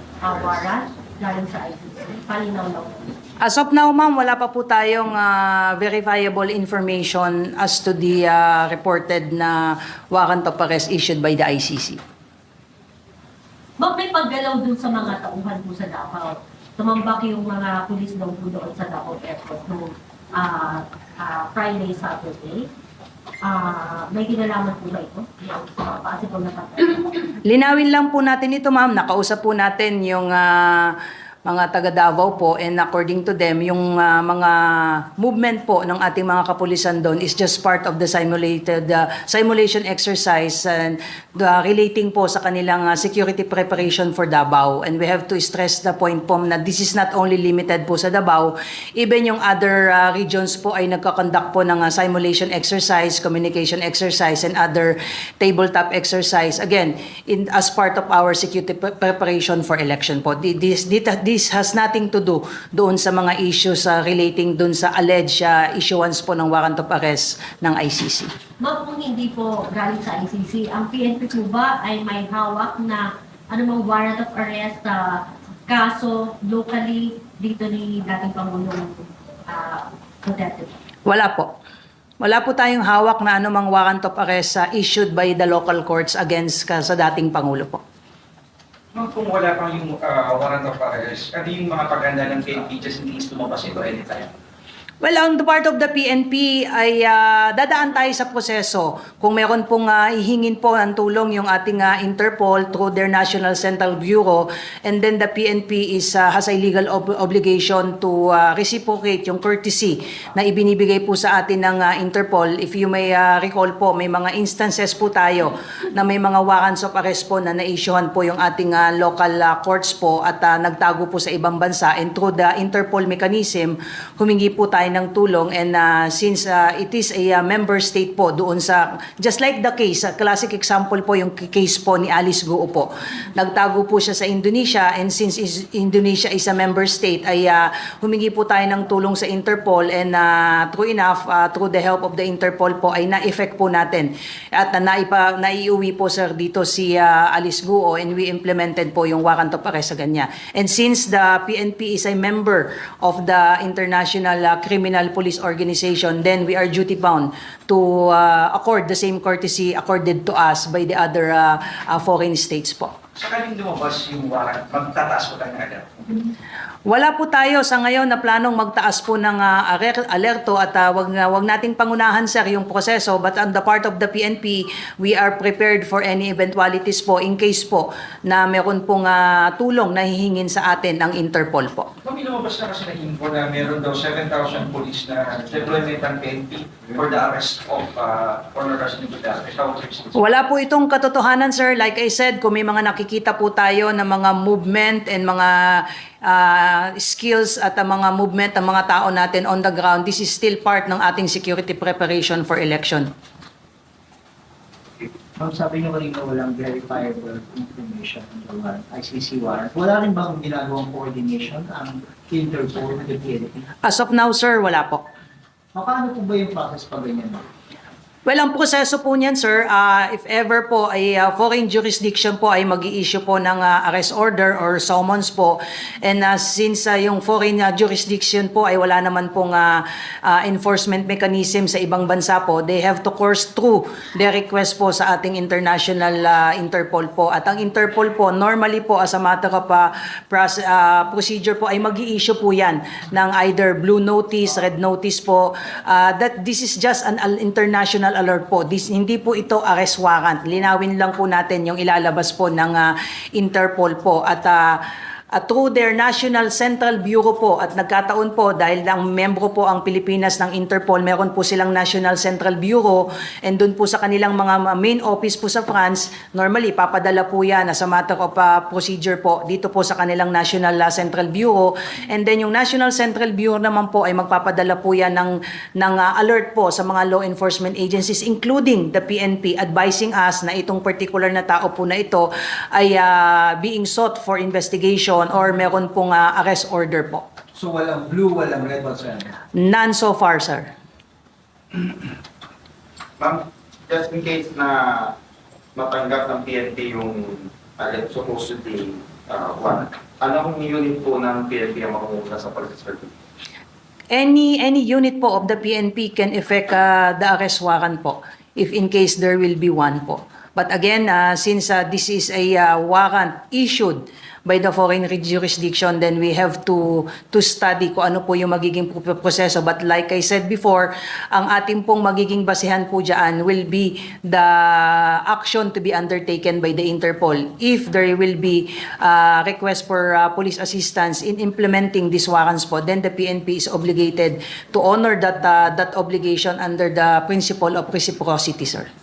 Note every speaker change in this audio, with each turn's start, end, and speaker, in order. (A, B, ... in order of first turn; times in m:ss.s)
0:00.2-0:03.1 A
0:03.4-0:09.6 B
0:10.1-0:12.0 B
0:13.8-0:22.7 A
0:23.4-0:27.3 A
0:27.5-0:31.0 B
0:31.5-1:08.3 B
1:08.6-1:20.7 A
1:21.1-1:21.5 B
1:22.2-1:27.8 B
1:28.9-1:34.3 C
1:35.0-2:42.9 B
2:43.2-2:46.2 C
2:46.9-3:01.9 B
3:02.0-3:10.2 C
3:10.2-3:23.1 B
3:25.0-3:33.7 D
3:33.9-3:35.0 B
3:35.7-3:37.4 D
3:38.3-4:14.6 B
4:15.3-4:47.2 B
4:47.6-4:49.2 C
4:49.6-4:50.7 B
4:53.2-4:55.1 E
4:55.8-5:03.1 E
5:04.1-5:38.9 B